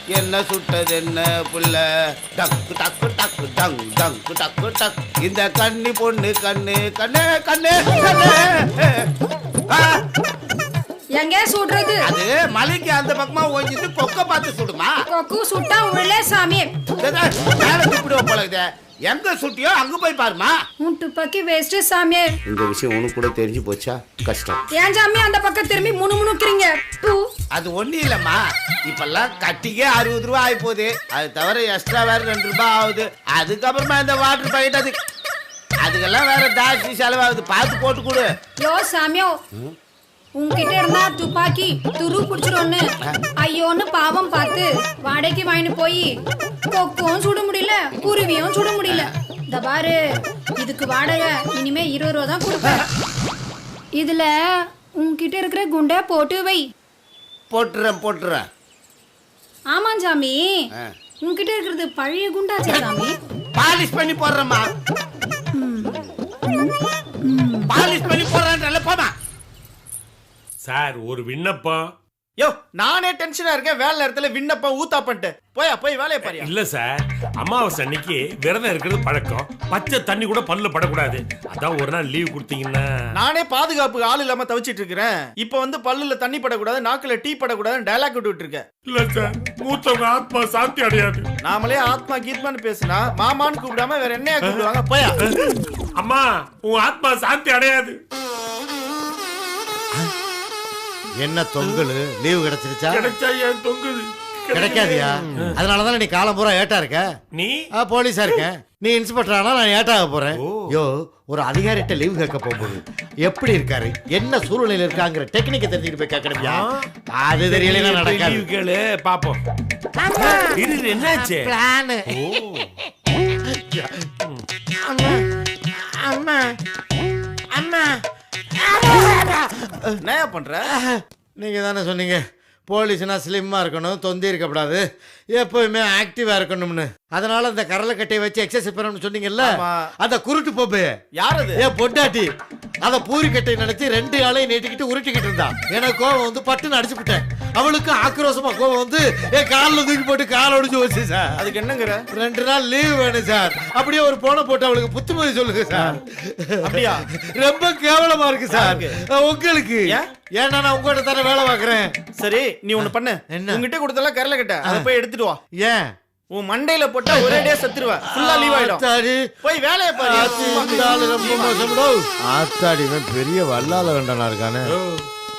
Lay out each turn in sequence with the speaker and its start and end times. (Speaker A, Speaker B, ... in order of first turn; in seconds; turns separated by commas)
Speaker A: 0.1-1.8, Speaker A: 2.4-9.1, Speaker A: 9.7-10.0, Speaker B: 11.2-12.0, Speaker A: 12.1-14.9, Speaker B: 15.1-16.7, Speaker A: 17.0-20.5, Speaker B: 20.8-22.3, Speaker A: 22.5-24.6, Speaker B: 24.8-27.2, Speaker A: 27.6-28.4, Speaker A: 28.9-35.0, Speaker A: 35.8-38.3, Speaker B: 38.6-39.4, Speaker B: 40.4-42.8, Speaker B: 43.4-46.1, Speaker B: 46.7-50.0, Speaker B: 50.6-52.8, Speaker B: 54.0-56.7, Speaker A: 57.5-58.4, Speaker B: 59.7-60.6, Speaker B: 61.2-63.1, Speaker A: 63.6-64.7, Speaker B: 65.6-65.9, Speaker B: 66.5-66.7, Speaker B: 67.2-67.7, Speaker A: 67.7-69.1, Speaker C: 70.6-71.9, Speaker D: 72.4-76.5, Speaker C: 76.2-76.9, Speaker C: 77.4-82.8, Speaker D: 83.2-88.7, Speaker C: 88.9-91.3, Speaker D: 91.4-95.2, Speaker C: 96.0-98.0, Speaker E: 101.2-103.1, Speaker C: 103.0-105.6, Speaker E: 104.5-107.1, Speaker E: 107.8-118.5, Speaker C: 110.4-110.7, Speaker C: 116.4-116.9, Speaker C: 117.5-119.4, Speaker E: 120.0-122.3, Speaker C: 120.5-121.5, Speaker C: 122.1-122.7, Speaker E: 123.5-124.0, Speaker E: 124.8-125.2, Speaker E: 125.7-126.5, Speaker E: 127.5-128.0, Speaker E: 128.6-130.0, Speaker D: 130.1-130.6, Speaker E: 130.8-134.8, Speaker E: 135.3-140.9, Speaker D: 139.4-139.7, Speaker D: 141.2-141.6, Speaker E: 141.6-142.3, Speaker E: 142.8-151.5, Speaker D: 151.4-152.0, Speaker E: 152.1-161.9, Speaker D: 156.7-157.0, Speaker D: 158.5-158.9, Speaker D: 162.2-165.4, Speaker E: 162.8-163.7, Speaker E: 165.6-165.9, Speaker D: 166.3-168.8, Speaker E: 167.1-167.5, Speaker E: 168.1-169.3, Speaker D: 169.4-171.8, Speaker E: 169.9-174.7, Speaker C: 174.7-175.1